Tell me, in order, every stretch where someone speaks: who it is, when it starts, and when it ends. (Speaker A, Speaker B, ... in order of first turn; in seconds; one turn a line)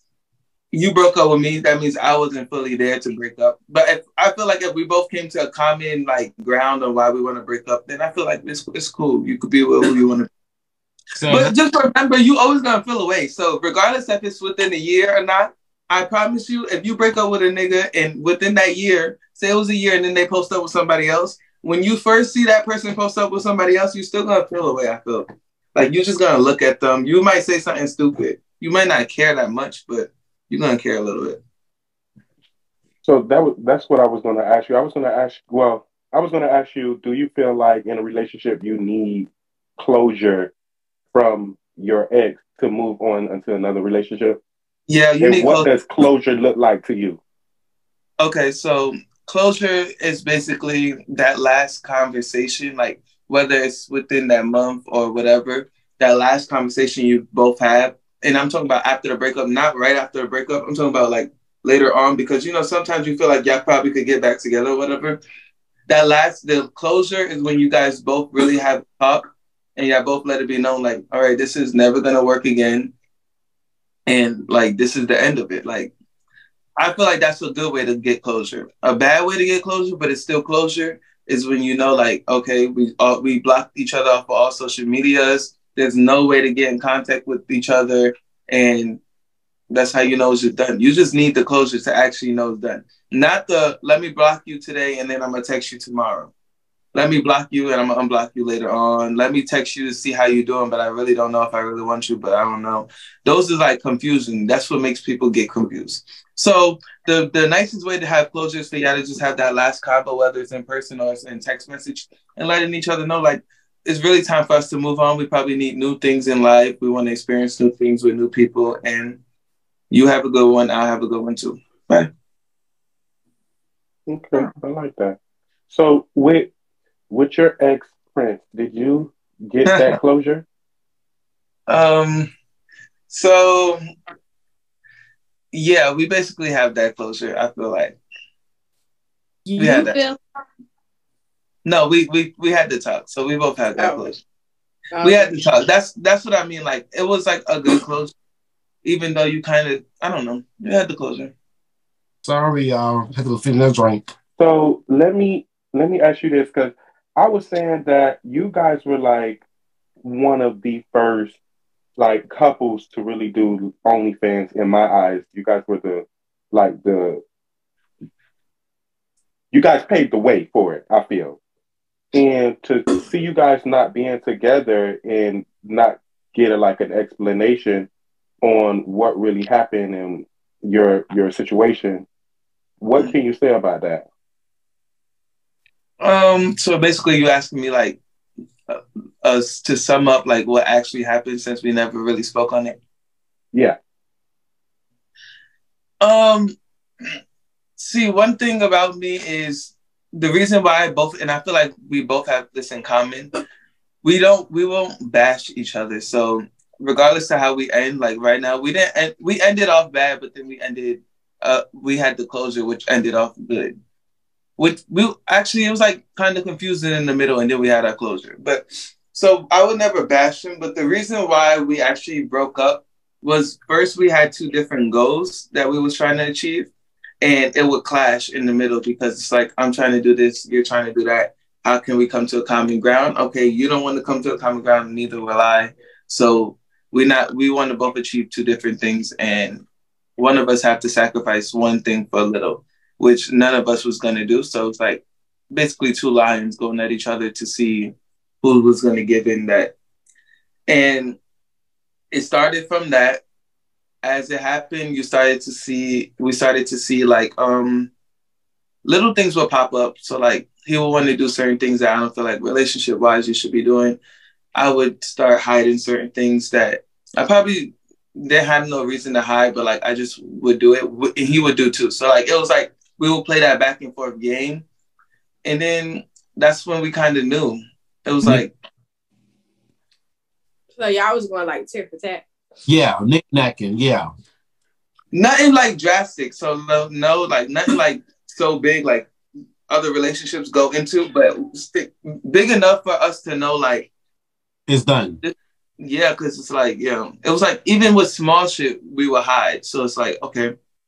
Speaker A: 0.7-10.3
Speaker B: 11.2-11.5
Speaker A: 11.3-31.4
Speaker C: 33.0-40.5
Speaker C: 41.1-44.4
Speaker A: 44.9-45.7
Speaker C: 45.2-47.2
Speaker A: 48.2-65.2
Speaker A: 65.9-72.9
Speaker A: 74.1-75.9
Speaker A: 76.8-89.0
Speaker A: 89.7-96.3
Speaker A: 96.9-119.2
Speaker A: 119.9-122.1
Speaker C: 124.1-125.2
Speaker C: 125.7-126.5
Speaker C: 127.1-130.4
Speaker A: 129.7-129.9
Speaker A: 131.7-132.3
Speaker A: 133.1-133.8
Speaker A: 135.5-138.0
Speaker D: 139.5-140.2
Speaker A: 139.6-140.0
Speaker A: 141.7-144.2
Speaker D: 143.8-144.1
Speaker D: 144.9-145.4
Speaker A: 145.0-148.1
Speaker A: 148.8-151.3
Speaker B: 152.2-154.0
Speaker C: 154.4-159.4
Speaker C: 160.0-161.4
Speaker C: 162.0-167.2
Speaker C: 169.5-171.4
Speaker C: 172.1-177.9
Speaker C: 178.4-182.1
Speaker C: 182.8-184.1
Speaker A: 186.0-188.0
Speaker A: 188.7-192.8
Speaker A: 196.0-196.5
Speaker A: 197.8-203.3
Speaker A: 204.0-213.7
Speaker A: 214.6-226.7
Speaker A: 227.2-239.6
Speaker A: 240.2-249.7
Speaker A: 250.7-251.2
Speaker A: 252.1-253.2
Speaker A: 254.0-257.9
Speaker A: 258.9-264.0
Speaker A: 264.6-274.6
Speaker A: 275.4-278.5
Speaker D: 280.8-282.2
Speaker B: 282.7-284.1
Speaker A: 285.1-289.1
Speaker A: 289.7-293.9
Speaker B: 294.7-295.2
Speaker A: 295.2-300.5